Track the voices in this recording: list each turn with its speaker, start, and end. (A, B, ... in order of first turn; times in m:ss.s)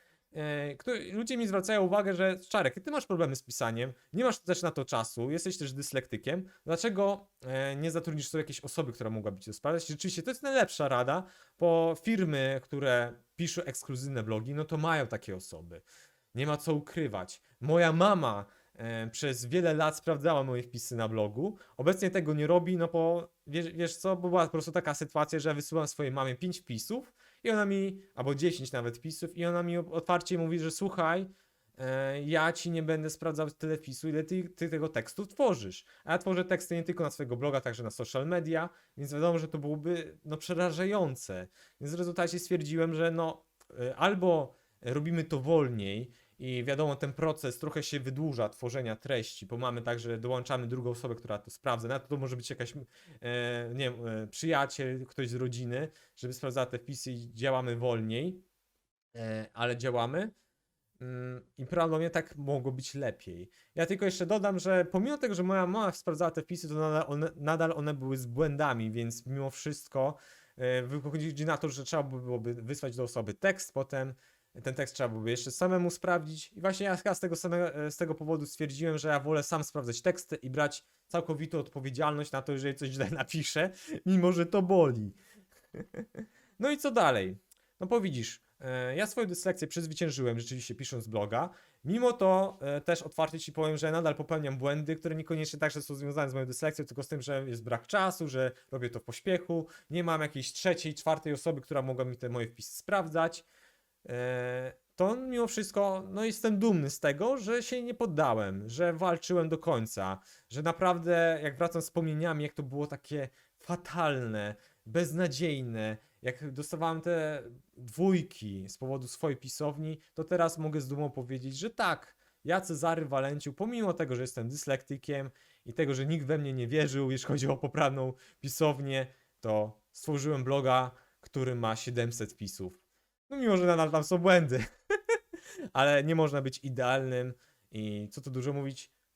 0:00.3-0:58.4 A
0:59.1-1:00.3 A
1:01.0-1:25.2 A
1:26.6-1:43.4 A
1:44.0-2:14.6 A
2:15.7-2:18.9 A